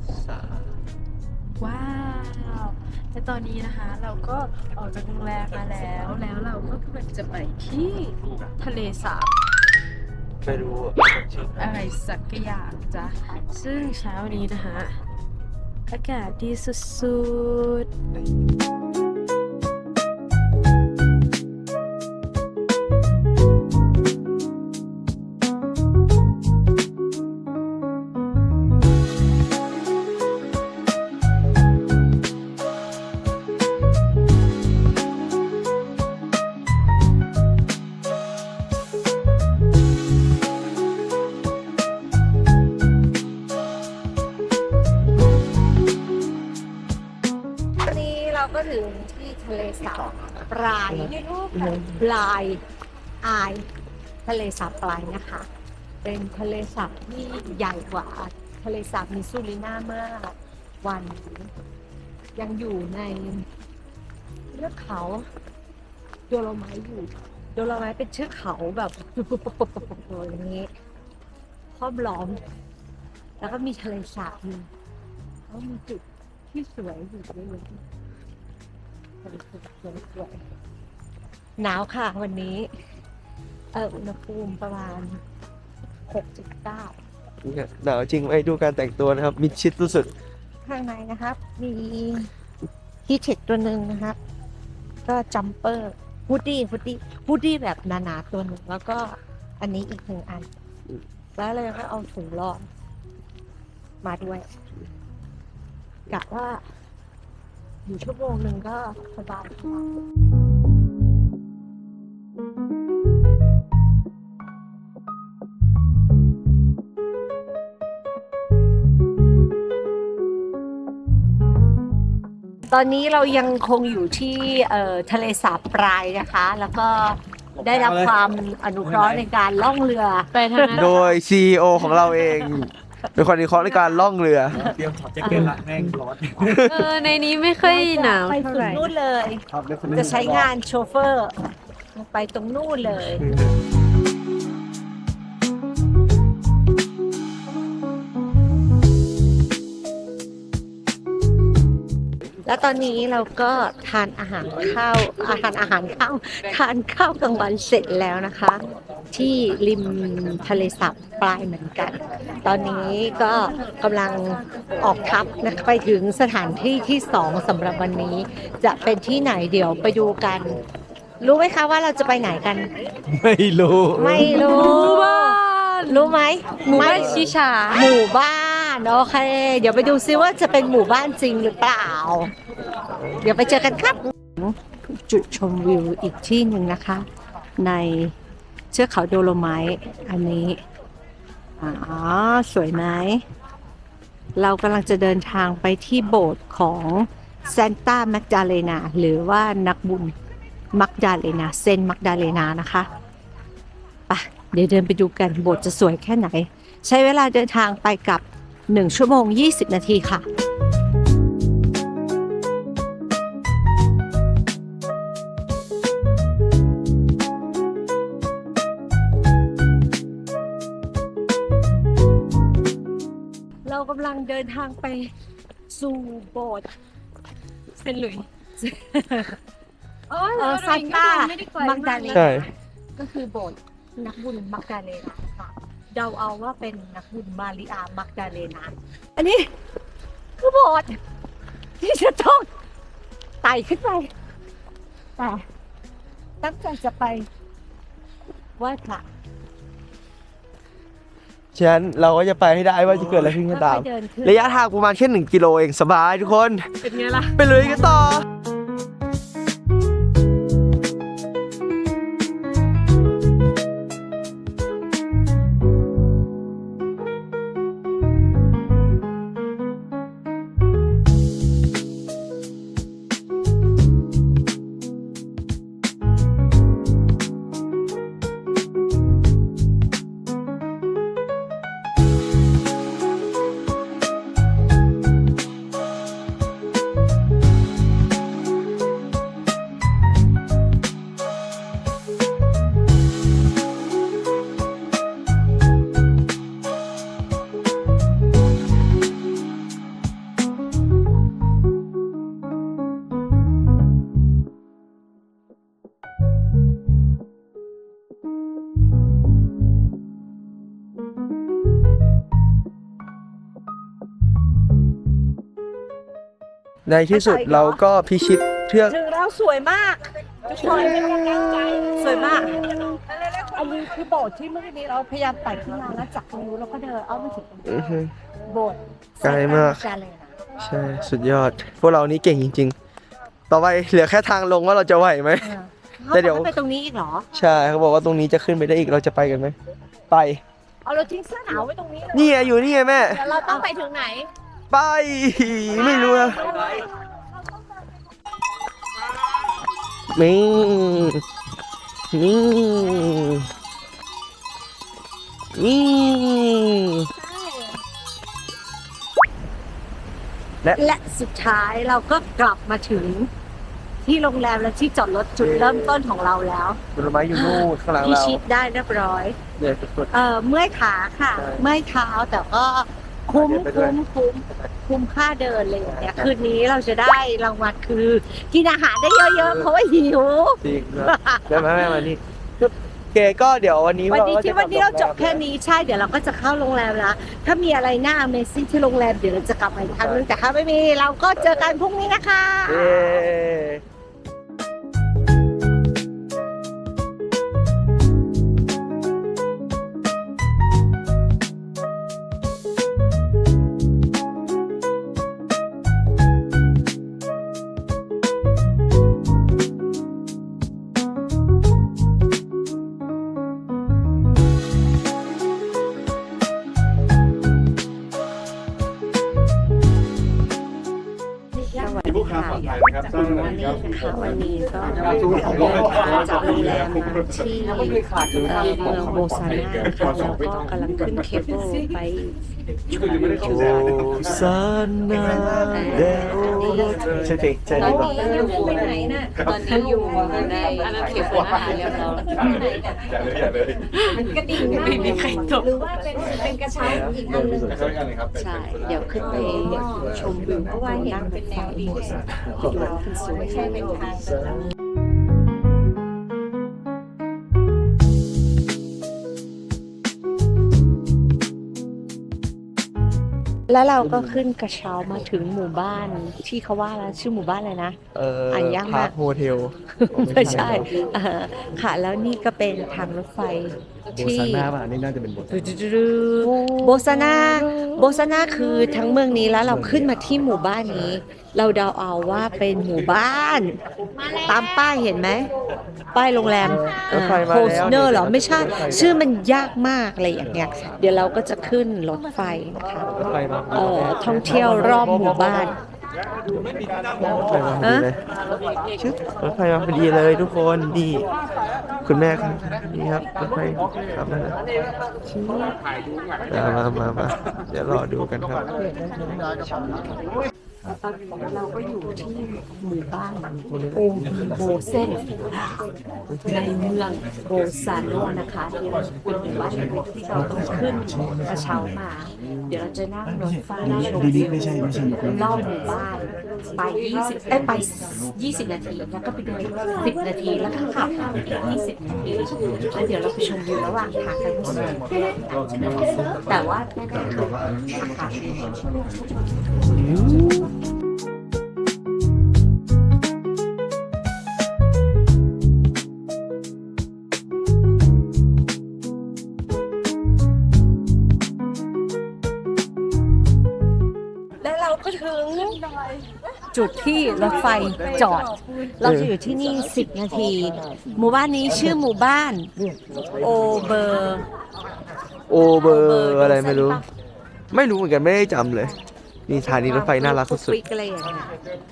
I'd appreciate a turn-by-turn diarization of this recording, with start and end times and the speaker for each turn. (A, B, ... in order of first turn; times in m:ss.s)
0:00.2-0:00.6 A
0:01.6-0:09.3 B
0:10.4-0:11.6 A
0:11.6-0:15.0 B
0:15.9-0:17.9 B
0:47.8-0:52.6 C
0:50.9-0:52.0 A
0:53.2-0:53.7 C
0:54.2-0:55.5 C
0:56.0-1:01.5 C
1:02.4-1:03.5 C
1:04.5-1:05.3 C
1:06.3-1:10.7 C
1:11.8-1:12.4 C
1:13.4-1:14.7 C
1:15.5-1:17.8 C
1:19.2-1:20.4 C
1:21.6-1:22.7 C
1:23.7-1:25.2 C
1:26.1-1:27.0 C
1:27.4-1:30.1 A
1:30.6-1:32.3 C
1:33.1-1:34.2 C
1:35.0-1:40.5 C
1:41.4-1:42.7 C
1:44.0-1:44.5 C
1:46.1-1:46.6 C
1:47.9-1:49.9 C
2:02.7-2:10.7 C
2:10.3-2:11.0 B
2:10.7-2:14.7 A
2:13.7-2:14.0 C
2:14.6-2:16.4 D
2:15.2-2:15.5 B
2:16.4-2:17.0 A
2:16.6-2:18.9 B
2:17.6-2:23.3 C
2:19.5-2:20.5 D
2:23.0-2:23.6 A
2:32.4-2:38.6 C
2:39.1-2:50.6 C
2:51.2-2:52.7 C
2:53.1-2:54.5 A
2:54.0-3:02.3 C
2:54.2-2:56.1 B
2:56.7-2:57.8 B
2:56.8-2:57.3 A
3:03.2-3:07.1 C
3:07.6-3:08.2 C
3:08.7-3:10.6 C
3:11.6-3:13.2 C
3:14.4-3:20.1 C
3:20.7-3:22.9 C
3:24.1-3:30.2 C
3:43.6-3:45.1 C
3:45.7-3:46.7 C
3:47.7-3:49.4 C
3:50.1-3:52.3 B
3:50.4-3:59.6 C
3:52.1-3:52.5 A
4:00.4-4:01.0 C
4:01.8-4:02.5 C
4:03.4-4:04.1 C
4:05.2-4:05.4 C
4:06.4-4:07.3 C
4:08.6-4:09.0 C
4:11.5-4:18.2 A
4:13.4-4:14.6 C
4:16.8-4:18.1 C
5:16.9-5:19.0 A
5:17.1-5:17.8 C
5:18.9-5:27.8 C
5:20.6-5:23.0 A
5:27.6-5:28.1 A
5:28.5-5:30.3 C
5:29.2-5:29.8 A
5:30.6-5:32.8 A
5:33.5-5:35.6 A
5:35.4-5:37.3 C
5:36.1-5:36.6 A
5:37.3-5:39.6 A
5:40.1-5:40.4 A
5:40.8-5:44.3 C
5:42.1-5:43.2 A
5:43.3-5:43.6 B
5:44.7-5:46.5 A
5:50.1-5:51.2 A
5:52.1-5:53.5 A
5:55.6-5:57.1 A
5:57.2-5:57.8 C
6:00.7-6:03.3 C
6:04.0-6:06.8 C
6:05.4-6:06.0 A
6:06.9-6:08.4 A
6:07.3-6:09.4 C
6:09.6-6:10.1 A
6:10.1-6:22.1 C
6:11.4-6:11.6 A
6:13.3-6:14.0 A
6:15.8-6:16.3 A
6:19.4-6:19.7 A
6:20.6-6:25.4 A
6:24.1-6:33.2 C
6:30.0-6:30.3 A
6:32.7-6:33.8 A
7:01.7-7:12.4 C
7:13.4-7:17.4 A
7:15.7-7:17.1 C
7:17.7-7:23.1 C
7:21.0-7:22.0 B
7:24.0-7:27.7 C
7:28.4-7:34.3 C
7:43.7-7:48.0 C
7:48.1-7:50.9 A
7:48.5-7:49.2 C
7:50.0-7:54.7 C
7:50.2-7:50.8 D
7:54.1-7:55.7 D
7:55.5-8:03.8 C
7:56.4-7:58.0 A
8:04.4-8:05.5 C
8:06.1-8:13.2 C
8:07.1-8:09.2 A
8:13.2-8:15.1 A
8:13.7-8:15.8 C
8:17.2-8:18.2 A
8:17.8-8:18.1 C
8:19.0-8:21.3 A
8:22.0-8:24.6 A
8:25.3-8:25.7 A
8:25.4-8:25.7 C
8:26.5-8:28.7 A
8:31.0-8:35.8 C
8:36.4-8:58.4 C
8:59.9-9:00.7 A
9:14.6-9:15.8 C
9:16.7-9:22.7 C
9:19.0-9:19.3 A
9:23.3-9:24.4 C
9:25.5-9:27.0 A
9:25.8-9:27.1 C
9:27.7-9:29.0 A
9:29.5-9:30.8 A
9:29.8-9:31.5 C